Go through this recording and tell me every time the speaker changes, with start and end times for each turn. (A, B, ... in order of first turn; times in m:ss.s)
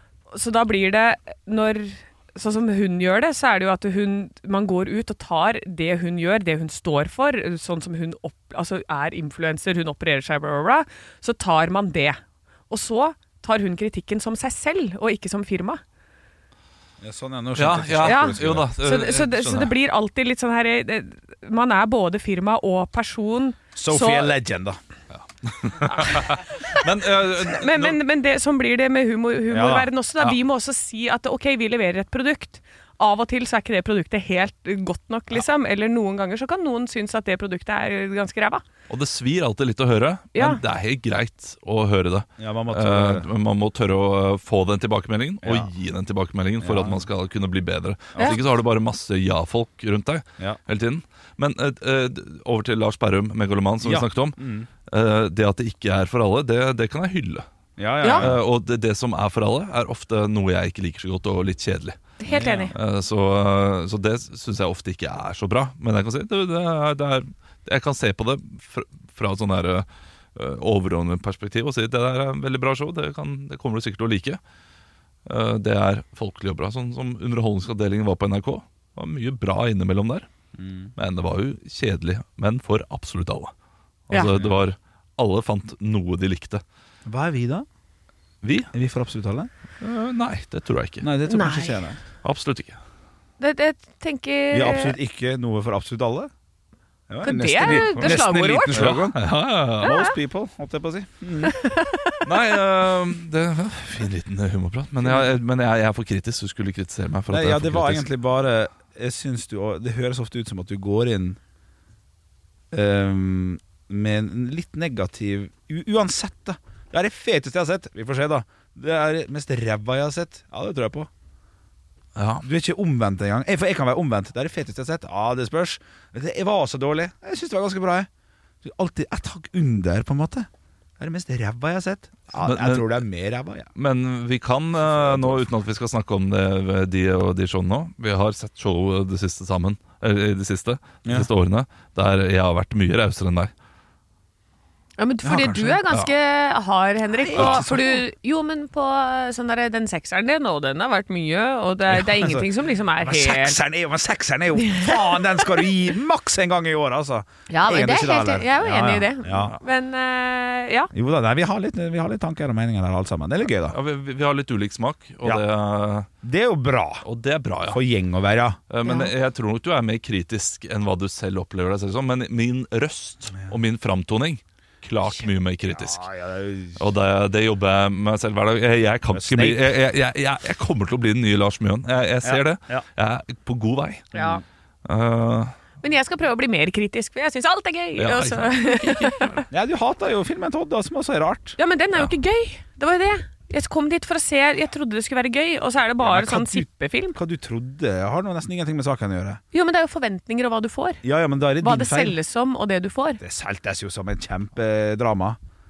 0:00.3-0:15.8 A
0:17.0-0:18.7 B
0:17.6-0:19.7 C
0:18.0-0:24.4 A
0:23.8-0:24.8 B
0:25.2-0:28.0 C
0:25.9-0:26.8 A
0:27.5-0:38.6 A
0:29.5-0:29.9 B
0:38.9-0:57.5 C
0:40.4-0:40.6 A
0:42.4-0:43.3 B
0:45.4-0:45.7 B
0:46.6-0:47.1 B
0:53.8-0:54.7 B
0:57.8-0:58.4 B
0:58.1-1:02.0 C
1:02.2-1:02.7 A
1:02.3-1:02.7 B
1:02.7-1:14.4 C
1:15.3-1:20.3 C
1:20.6-1:20.9 B
1:21.0-1:23.5 C
1:24.1-1:26.6 C
1:24.3-1:24.6 B
1:27.1-1:27.7 B
1:28.4-1:28.7 C
1:28.7-1:29.5 B
1:29.8-1:31.1 C
1:31.0-1:32.0 B
1:31.3-1:31.8 A
1:32.2-1:32.8 C
1:33.4-1:35.0 A
1:34.5-1:36.3 B
1:37.1-1:41.6 B
1:37.2-1:38.8 A
1:37.7-1:38.2 C
1:38.7-1:40.0 C
1:39.8-1:40.1 A
1:41.5-1:42.2 A
1:42.2-1:48.1 C
1:47.3-1:51.4 B
1:52.7-2:01.1 B
2:02.2-2:02.4 C
2:02.4-2:08.1 B
2:08.6-2:10.5 B
2:11.0-2:13.7 B
2:12.4-2:13.0 C
2:13.8-2:23.5 C
2:14.8-2:15.5 B
2:25.0-2:33.6 A
2:25.2-2:25.8 B
2:27.2-2:28.0 B
2:27.4-2:27.6 C
2:31.9-2:39.6 B
2:34.6-2:35.4 A
2:37.5-2:40.9 A
2:40.9-2:43.8 B
2:43.7-2:46.1 C
2:46.2-2:47.0 B
2:47.0-2:47.8 C
2:47.7-2:48.6 B
2:48.7-2:56.0 C
2:55.7-2:56.8 B
2:56.8-3:04.1 C
2:59.1-2:59.6 B
3:02.2-3:02.8 B
3:04.1-3:04.4 B
3:04.1-3:04.4 A
3:04.9-3:05.5 C
3:05.8-3:09.4 A
3:08.0-3:09.4 C
3:09.5-3:11.6 B
3:11.6-3:17.2 A
3:16.0-3:19.4 B
3:19.5-3:21.0 A
3:21.0-3:22.2 B
3:21.6-3:23.2 A
3:23.2-3:25.4 B